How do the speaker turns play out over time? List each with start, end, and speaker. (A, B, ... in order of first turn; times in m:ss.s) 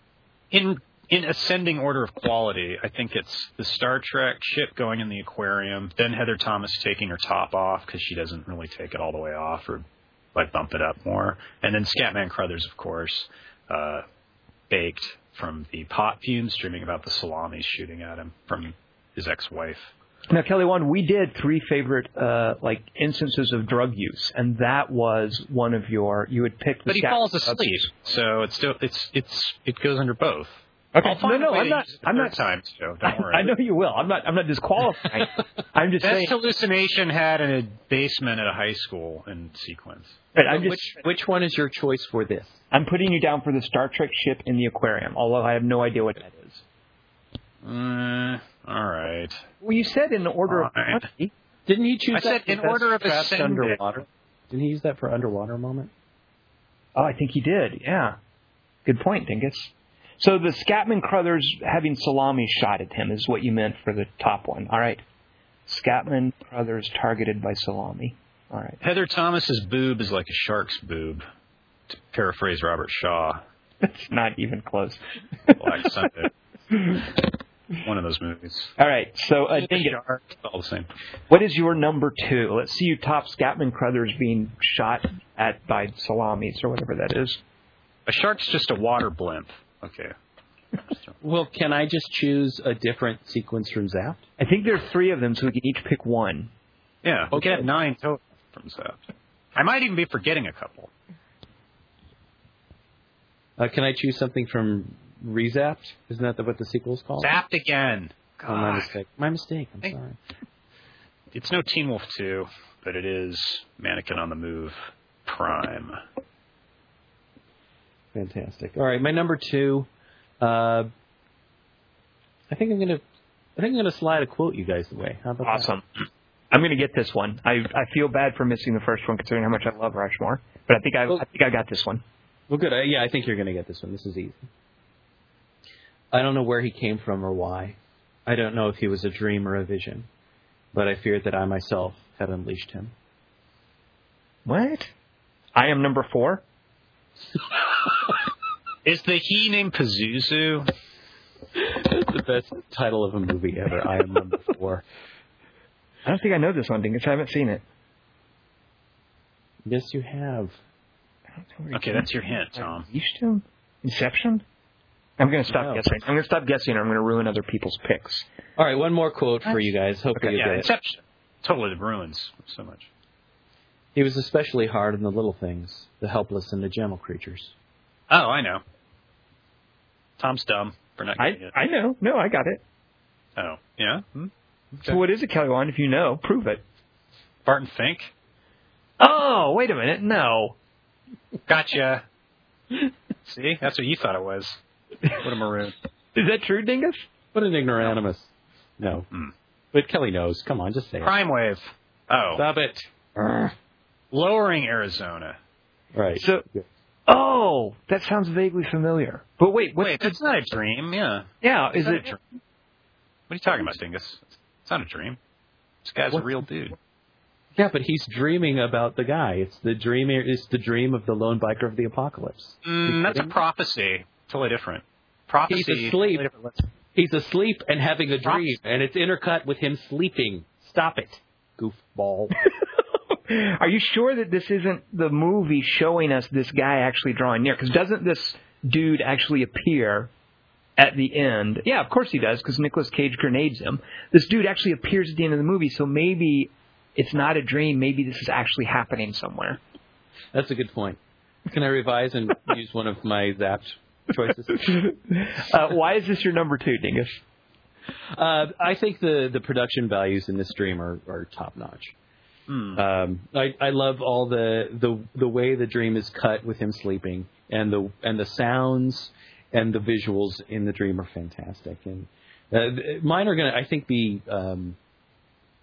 0:00.5-0:14.0 A
0:14.7-0:19.9 A
0:20.3-0:27.9 B
0:26.9-0:33.5 A
0:30.9-0:32.5 B
0:33.0-0:36.4 B
0:36.0-0:40.2 A
0:40.3-0:41.0 B
0:40.4-0:42.6 C
0:42.7-0:46.6 B
0:47.6-0:49.4 A
0:49.6-0:51.3 B
0:50.5-0:51.0 A
0:51.6-0:55.9 C
0:52.1-0:54.0 A
0:56.9-0:58.2 B
0:58.8-1:05.0 B
1:05.6-1:08.8 B
1:08.8-1:11.2 A
1:11.9-1:13.4 A
1:13.8-1:15.9 B
1:15.6-1:16.3 A
1:16.7-1:17.0 B
1:17.8-1:18.7 A
1:18.8-1:20.0 B
1:19.6-1:20.9 A
1:21.3-1:27.4 B
1:28.0-1:30.1 A
1:31.2-1:34.2 C
1:34.4-1:36.5 B
1:37.0-1:39.0 A
1:37.3-1:37.6 C
1:39.5-1:40.9 A
1:43.6-1:47.3 C
1:47.2-1:48.9 A
1:48.5-1:50.2 C
1:51.3-1:56.0 A
1:58.1-1:59.9 C
2:00.4-2:00.9 C
2:02.5-2:03.0 C
2:03.6-2:05.7 C
2:05.4-2:05.8 B
2:06.5-2:12.0 B
2:12.5-2:14.4 C
2:16.1-2:20.1 C
2:20.7-2:22.9 C
2:24.4-2:24.9 B
2:25.5-2:26.4 B
2:28.8-2:30.7 A
2:31.5-2:34.8 C
2:36.0-2:37.6 B
2:39.6-2:40.6 C
2:41.6-2:44.4 B
2:41.7-2:42.8 A
2:45.2-2:48.3 B
2:45.5-2:45.8 C
2:48.6-2:50.7 C
2:50.3-2:52.9 A
2:53.9-2:57.5 C
2:58.1-2:58.6 A
3:00.2-3:01.5 A
3:01.2-3:02.6 B
3:03.4-3:04.3 A
3:04.8-3:06.6 B
3:07.4-3:08.1 A
3:09.0-3:10.5 B
3:11.5-3:12.0 A
3:13.2-3:15.7 A
3:16.1-3:17.0 B
3:17.3-3:19.1 C
3:19.7-3:21.1 C
3:21.0-3:22.4 A
3:22.3-3:23.5 C
3:24.1-3:25.4 A
3:25.9-3:26.6 C
3:26.2-3:26.4 B
3:27.1-3:30.2 B
3:29.8-3:32.2 A
3:31.4-3:32.1 B
3:33.3-3:35.2 A
3:35.8-3:36.8 A
3:37.6-3:43.3 C
3:42.6-3:46.6 A
3:45.5-3:46.3 C
3:46.9-3:52.3 C
3:48.2-3:48.5 A
3:53.3-4:00.1 B
4:00.8-4:09.6 B
4:10.3-4:14.9 C
4:14.5-4:17.2 B
4:18.1-4:21.9 C
4:22.5-4:22.8 A
4:22.7-4:34.8 C